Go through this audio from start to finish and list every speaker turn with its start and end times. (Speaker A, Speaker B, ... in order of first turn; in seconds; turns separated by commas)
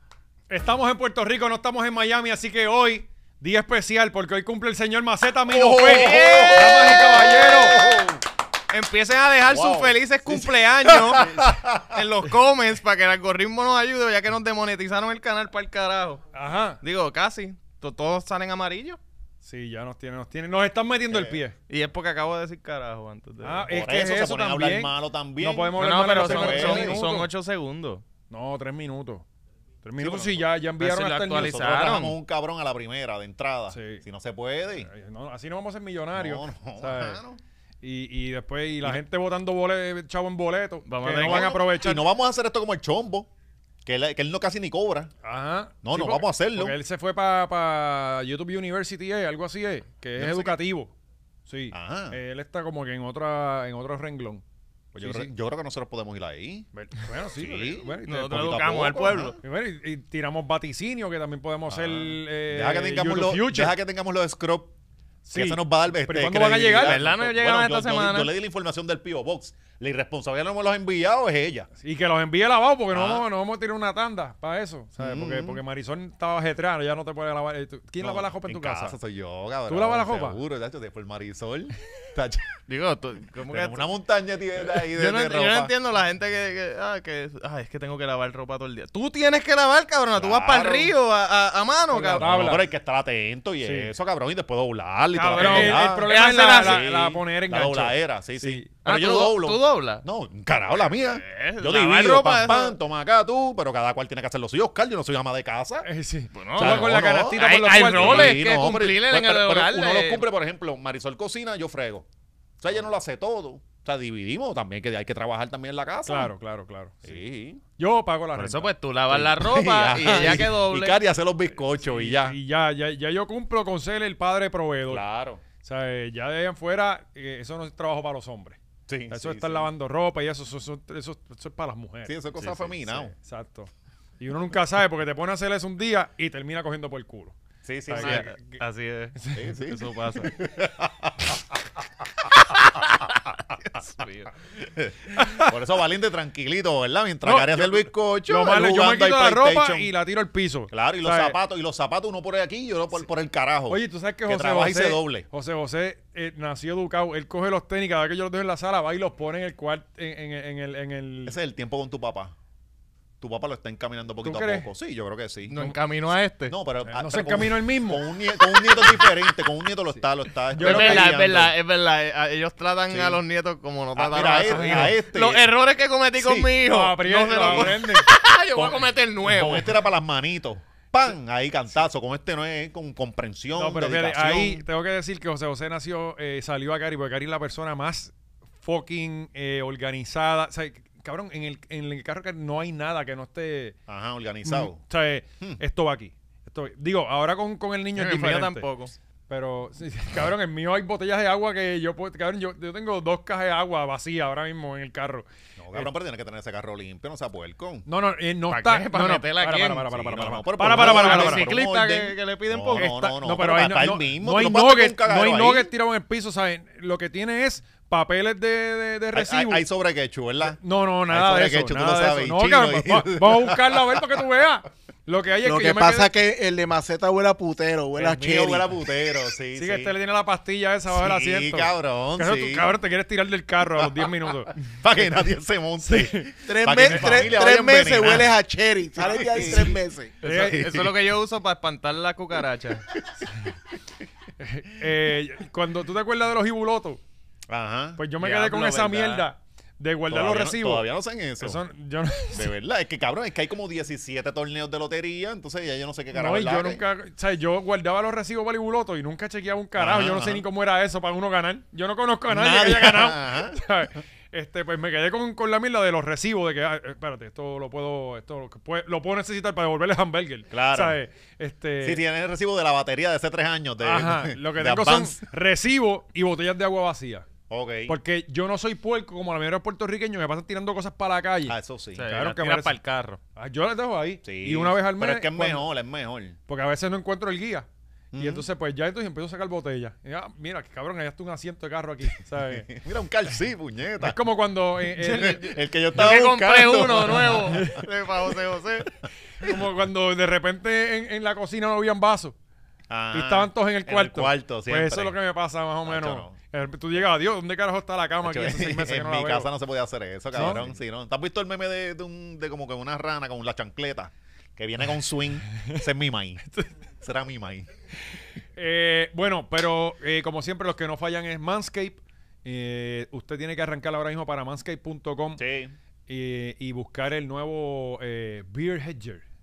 Speaker A: 0.5-7.8, Speaker B: 5.5-8.2, Speaker C: 5.8-7.0, Speaker C: 8.7-16.2, Speaker B: 9.5-12.0, Speaker A: 16.3-16.8, Speaker C: 16.8-19.0, Speaker A: 19.4-21.6, Speaker B: 21.1-21.4, Speaker C: 21.7-23.7, Speaker A: 23.4-27.3, Speaker B: 23.7-27.0, Speaker C: 25.8-28.0, Speaker A: 28.3-29.2, Speaker A: 29.8-31.6, Speaker B: 30.0-30.4, Speaker C: 30.8-32.2, Speaker B: 31.3-34.9, Speaker A: 33.7-34.0, Speaker A: 34.8-37.2, Speaker B: 36.2-37.4, Speaker A: 37.8-42.0, Speaker C: 40.9-41.6, Speaker B: 41.1-43.3, Speaker B: 43.8-45.1, Speaker A: 45.2-50.9, Speaker B: 45.8-46.8, Speaker B: 50.2-50.5, Speaker A: 51.5-54.4, Speaker B: 51.7-52.2, Speaker A: 54.9-55.3, Speaker B: 55.0-56.7, Speaker A: 56.7-58.5, Speaker B: 57.3-59.4, Speaker C: 58.0-59.4, Speaker A: 59.4-63.8, Speaker B: 61.7-64.8, Speaker A: 65.2-67.0, Speaker B: 65.3-71.7, Speaker C: 66.8-68.3, Speaker A: 71.8-79.0, Speaker B: 72.9-73.3, Speaker B: 75.0-75.6, Speaker B: 78.0-82.6, Speaker A: 79.7-80.4, Speaker C: 82.7-83.9, Speaker B: 83.5-85.7, Speaker C: 84.6-92.5, Speaker B: 90.2-90.9, Speaker A: 91.9-92.7, Speaker B: 92.2-105.9, Speaker A: 93.6-93.9, Speaker C: 95.2-96.9, Speaker A: 95.2-98.7, Speaker C: 98.8-100.0, Speaker C: 101.1-102.8, Speaker A: 105.8-108.4, Speaker C: 106.3-110.2, Speaker B: 106.5-112.1, Speaker B: 112.6-116.3, Speaker A: 116.1-117.2, Speaker B: 117.0-117.6, Speaker A: 117.8-118.7, Speaker C: 118.3-121.0, Speaker B: 119.1-122.4, Speaker A: 121.6-125.0, Speaker B: 124.9-125.4, Speaker A: 125.6-128.6, Speaker B: 128.9-129.7, Speaker A: 129.1-132.2, Speaker B: 132.1-133.1, Speaker C: 132.4-132.7, Speaker A: 132.8-137.4, Speaker B: 137.6-138.3, Speaker A: 137.9-138.6, Speaker C: 137.9-140.3, Speaker A: 139.2-139.5, Speaker B: 139.3-141.6, Speaker C: 142.5-144.3, Speaker B: 144.8-149.9, Speaker A: 145.1-145.5, Speaker A: 147.2-151.3, Speaker B: 150.7-155.3, Speaker A: 153.7-161.4, Speaker B: 161.2-162.3, Speaker B: 163.2-165.5, Speaker A: 164.2-164.7, Speaker C: 165.5-166.5, Speaker B: 166.5-171.5, Speaker A: 166.8-168.0, Speaker C: 168.5-169.5, Speaker A: 170.5-171.1, Speaker C: 170.6-179.8, Speaker B: 172.9-173.2, Speaker B: 174.0-175.5, Speaker A: 174.5-175.0, Speaker B: 176.2-176.6, Speaker A: 176.7-178.1, Speaker B: 177.3-178.1, Speaker B: 179.2-184.6, Speaker A: 183.6-193.8, Speaker B: 193.9-194.8, Speaker A: 194.4-198.7, Speaker C: 198.0-199.0, Speaker A: 199.3-205.9, Speaker B: 205.6-207.8, Speaker A: 207.8-211.5, Speaker C: 208.5-212.9, Speaker B: 209.9-215.7, Speaker A: 212.7-219.6, Speaker B: 219.1-224.2, Speaker A: 220.4-226.1, Speaker D: 225.4-228.7, Speaker B: 228.0-229.9, Speaker A: 229.5-234.5, Speaker B: 230.9-232.7, Speaker B: 233.8-238.3, Speaker A: 235.8-237.3, Speaker D: 236.5-240.1, Speaker B: 239.0-241.0, Speaker C: 239.3-239.6, Speaker C: 240.2-242.9, Speaker A: 240.2-240.8, Speaker B: 242.9-243.3, Speaker A: 244.4-247.0, Speaker B: 247.5-248.0, Speaker A: 248.0-252.5, Speaker C: 248.2-249.3, Speaker B: 250.1-251.6, Speaker B: 252.3-256.8, Speaker A: 256.1-272.0, Speaker B: 259.8-260.4, Speaker B: 262.3-263.6, Speaker B: 270.5-271.0, Speaker B: 271.8-275.2, Speaker A: 273.8-277.3, Speaker B: 277.5-278.0, Speaker A: 277.9-282.8, Speaker B: 281.5-282.1, Speaker C: 282.0-283.2, Speaker A: 283.4-285.6, Speaker B: 284.2-286.4, Speaker A: 286.5-292.7, Speaker B: 288.1-288.5, Speaker B: 292.4-294.2, Speaker A: 294.0-295.4, Speaker B: 295.0-297.7, Speaker C: 295.0-298.9, Speaker A: 297.4-297.8, Speaker A: 299.4-302.4, Speaker B: 302.9-305.2, Speaker A: 303.1-309.5, Speaker B: 305.9-306.4, Speaker B: 308.2-316.4, Speaker A: 310.3-310.8, Speaker B: 317.0-317.7, Speaker A: 318.6-325.4, Speaker B: 325.4-325.7, Speaker A: 326.1-329.2